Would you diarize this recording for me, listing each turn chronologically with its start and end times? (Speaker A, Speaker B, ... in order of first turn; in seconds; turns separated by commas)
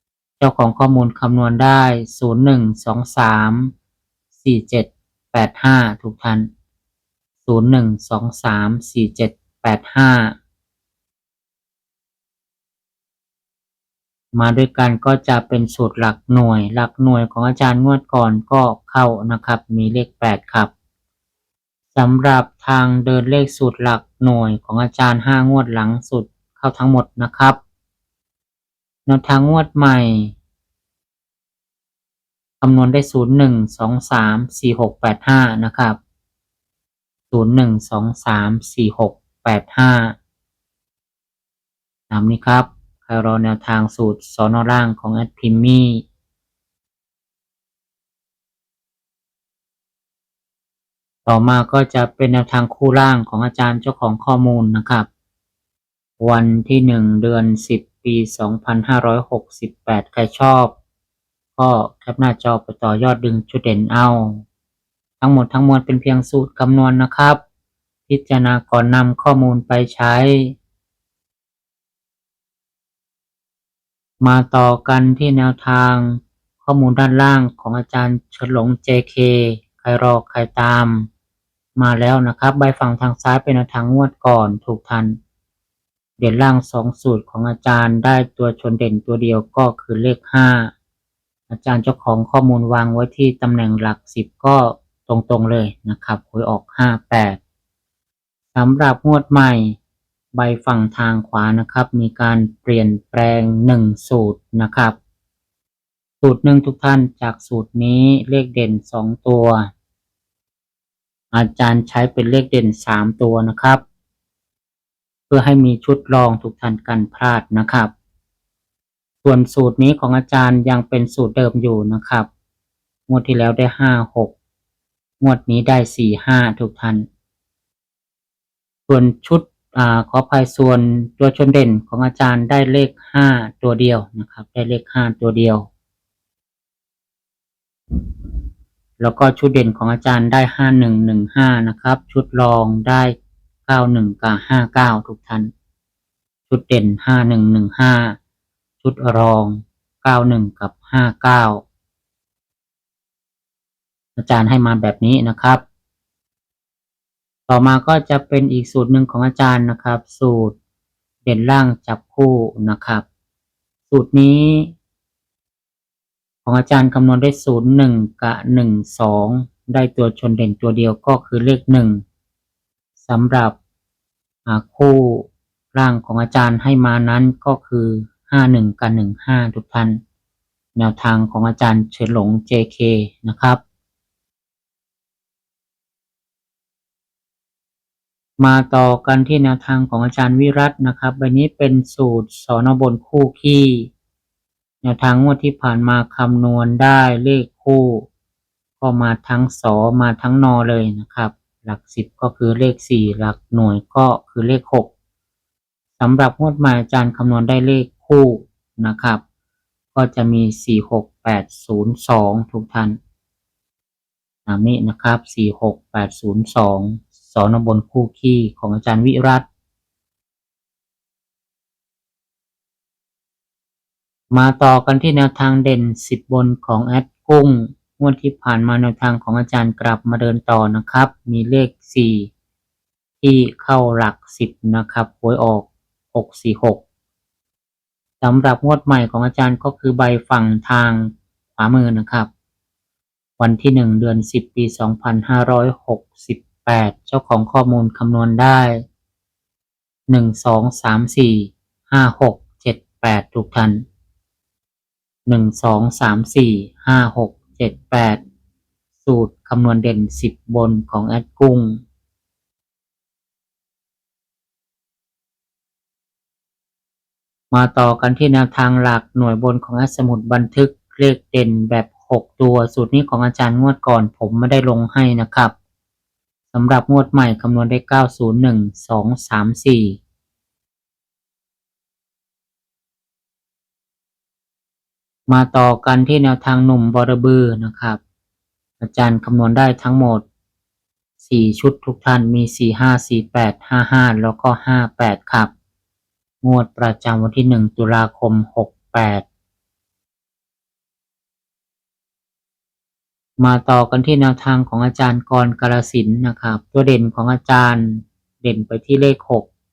Speaker A: 0.4-3.7, Speaker A: 4.3-6.5, Speaker A: 7.4-10.3, Speaker A: 14.3-20.7, Speaker A: 21.9-27.6, Speaker A: 29.1-30.3, Speaker A: 32.6-36.0, Speaker A: 37.3-40.1, Speaker A: 42.1-46.0, Speaker A: 51.2-55.1, Speaker A: 56.2-60.7, Speaker A: 61.5-64.4, Speaker A: 65.2-67.4, Speaker A: 68.1-70.6, Speaker A: 74.2-81.1, Speaker A: 81.8-85.2, Speaker A: 86.2-90.7, Speaker A: 91.5-97.4, Speaker A: 98.5-99.8, Speaker A: 100.3-105.0, Speaker A: 106.2-109.7, Speaker A: 111.3-113.8, Speaker A: 115.3-117.9, Speaker A: 119.2-122.3, Speaker A: 123.1-124.3, Speaker A: 125.2-127.0, Speaker A: 128.9-135.7, Speaker A: 139.0-143.1, Speaker A: 143.7-145.5, Speaker A: 146.5-148.2, Speaker A: 148.8-151.6, Speaker A: 154.2-155.6, Speaker A: 157.5-160.6, Speaker A: 161.2-163.0, Speaker A: 163.9-164.7, Speaker A: 166.4-172.0, Speaker A: 173.0-173.6, Speaker A: 174.4-180.0, Speaker A: 180.8-183.6, Speaker A: 188.4-193.9, Speaker A: 194.8-198.1, Speaker A: 198.8-204.9, Speaker A: 206.0-209.2, Speaker A: 209.9-213.0, Speaker A: 214.4-219.4, Speaker A: 224.3-232.3, Speaker A: 233.2-236.8, Speaker A: 238.2-242.3, Speaker A: 243.4-248.8, Speaker A: 250.1-253.8, Speaker A: 255.2-258.2, Speaker A: 259.0-261.8, Speaker A: 267.5-275.5, Speaker A: 276.5-280.0, Speaker A: 285.3-288.0, Speaker A: 288.8-290.2, Speaker A: 291.2-295.5, Speaker A: 296.4-299.2, Speaker A: 303.4-309.5